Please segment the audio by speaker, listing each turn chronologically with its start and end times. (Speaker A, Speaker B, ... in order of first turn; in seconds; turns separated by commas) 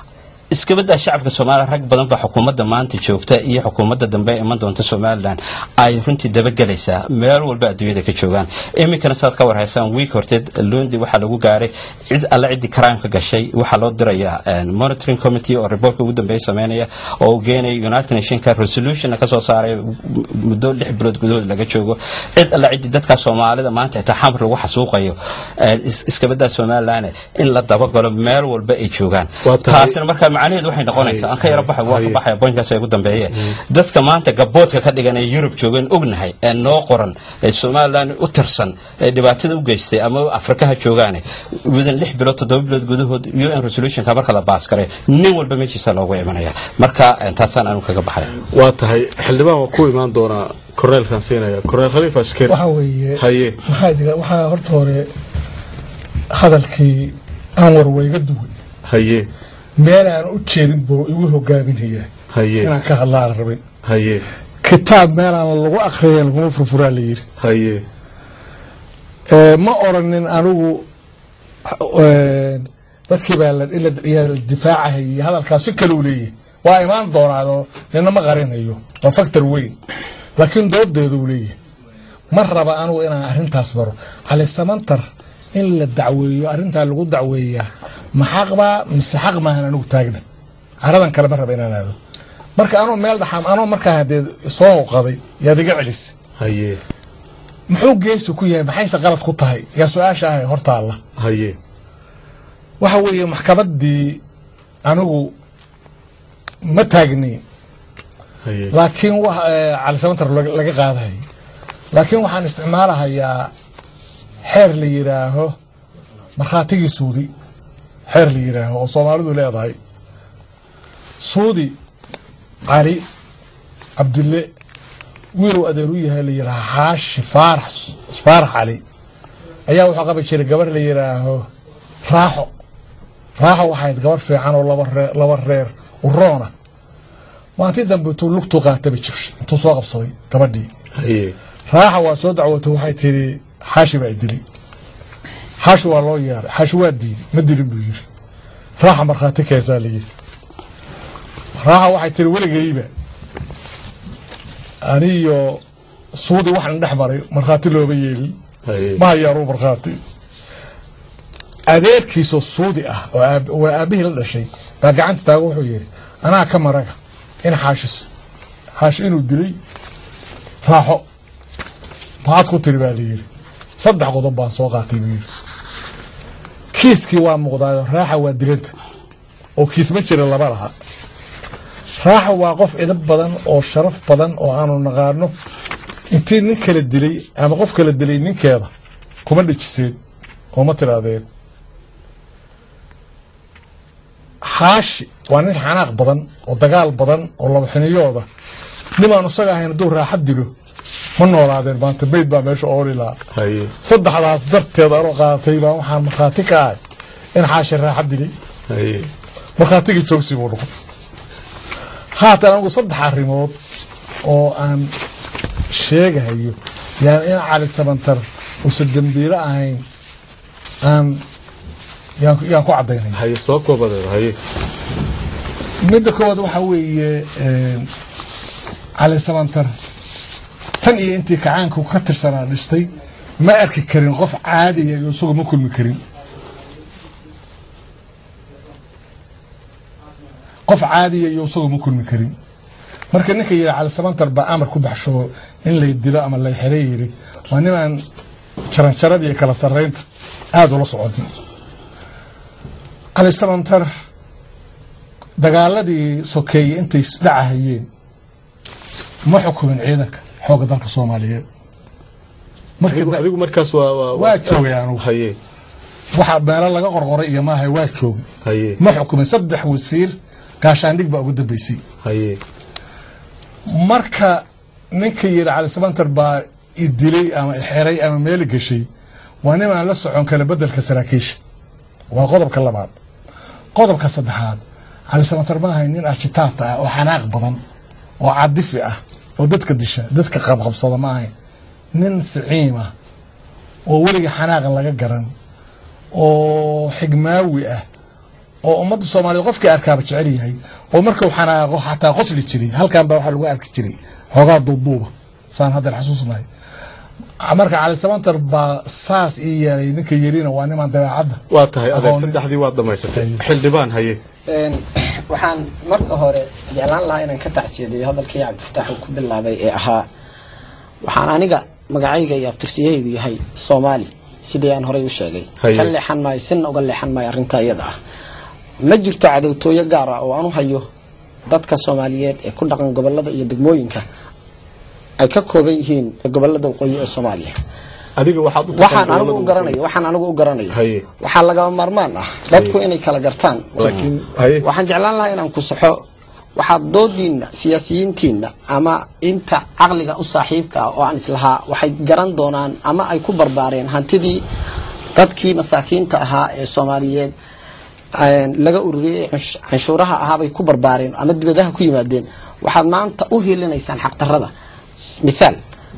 Speaker A: 0.5-48.4, Speaker B: 29.4-30.0, Speaker B: 30.9-32.2, Speaker B: 48.5-52.6, Speaker C: 52.5-55.1, Speaker B: 53.2-53.6, Speaker C: 56.3-58.5, Speaker B: 58.9-59.3, Speaker C: 59.8-62.1, Speaker B: 62.3-62.7, Speaker C: 62.6-63.6, Speaker B: 63.9-64.2, Speaker C: 64.6-67.2, Speaker B: 67.4-67.8, Speaker C: 69.3-70.8, Speaker C: 71.7-79.8, Speaker C: 80.4-81.5, Speaker C: 82.3-90.2, Speaker C: 90.8-92.0, Speaker C: 92.6-96.1, Speaker B: 96.4-96.8, Speaker C: 97.7-101.0, Speaker B: 101.2-101.5, Speaker C: 102.8-104.2, Speaker C: 104.8-105.3, Speaker C: 106.6-107.4, Speaker B: 108.4-108.7, Speaker C: 108.7-111.2, Speaker C: 111.9-113.5, Speaker C: 114.4-115.5, Speaker C: 116.4-117.3, Speaker C: 118.1-119.8, Speaker C: 121.2-121.7, Speaker C: 122.7-123.0, Speaker C: 124.0-124.5, Speaker C: 125.3-128.8, Speaker C: 129.7-131.5, Speaker C: 132.1-132.5, Speaker C: 133.4-136.5, Speaker C: 137.6-140.7, Speaker B: 141.0-141.3, Speaker C: 141.7-144.4, Speaker C: 145.6-148.0, Speaker C: 148.8-150.0, Speaker C: 151.6-152.9, Speaker C: 154.8-155.6, Speaker C: 156.1-158.3, Speaker B: 158.7-159.0, Speaker C: 159.0-160.0, Speaker C: 161.7-168.1, Speaker C: 168.8-169.6, Speaker C: 170.6-171.0, Speaker C: 172.2-173.2, Speaker C: 173.8-175.2, Speaker C: 176.7-178.7, Speaker C: 179.6-180.7, Speaker C: 182.0-185.3, Speaker C: 186.1-188.7, Speaker C: 189.2-190.0, Speaker C: 190.5-191.2, Speaker C: 194.4-198.2, Speaker C: 199.0-200.5, Speaker C: 201.2-203.2, Speaker B: 203.3-203.7, Speaker C: 203.8-206.8, Speaker C: 207.3-208.3, Speaker B: 208.7-209.1, Speaker C: 209.6-210.7, Speaker C: 212.1-213.5, Speaker C: 214.2-214.9, Speaker C: 215.7-219.8, Speaker C: 220.8-221.2, Speaker C: 222.2-223.2, Speaker B: 223.2-224.4, Speaker C: 225.8-227.9, Speaker C: 229.0-229.7, Speaker C: 230.8-236.0, Speaker C: 240.7-242.3, Speaker C: 243.1-248.0, Speaker C: 248.7-250.0, Speaker C: 250.5-251.3, Speaker C: 253.1-253.9, Speaker C: 255.4-257.9, Speaker C: 259.2-261.4, Speaker C: 262.8-263.2, Speaker B: 262.9-265.4, Speaker C: 264.1-265.0, Speaker C: 266.1-268.2, Speaker B: 268.4-268.8, Speaker C: 268.8-271.8, Speaker B: 272.0-272.4, Speaker C: 273.7-278.9, Speaker C: 279.4-281.4, Speaker C: 282.1-282.9, Speaker C: 283.7-287.6, Speaker C: 288.2-291.3, Speaker C: 291.9-292.9, Speaker C: 293.9-295.3, Speaker C: 296.1-297.8, Speaker C: 298.6-306.4, Speaker C: 307.4-312.4, Speaker B: 311.5-314.2, Speaker C: 313.1-313.4, Speaker D: 314.5-320.1, Speaker D: 321.0-327.9, Speaker B: 325.6-325.9, Speaker D: 328.8-330.9, Speaker D: 331.5-334.0, Speaker D: 335.2-337.5, Speaker B: 338.2-339.8, Speaker D: 338.7-344.1, Speaker B: 340.7-341.0, Speaker B: 343.8-344.6, Speaker D: 344.6-346.0, Speaker D: 346.5-354.4, Speaker D: 355.1-357.3, Speaker D: 358.2-364.5, Speaker D: 365.1-365.6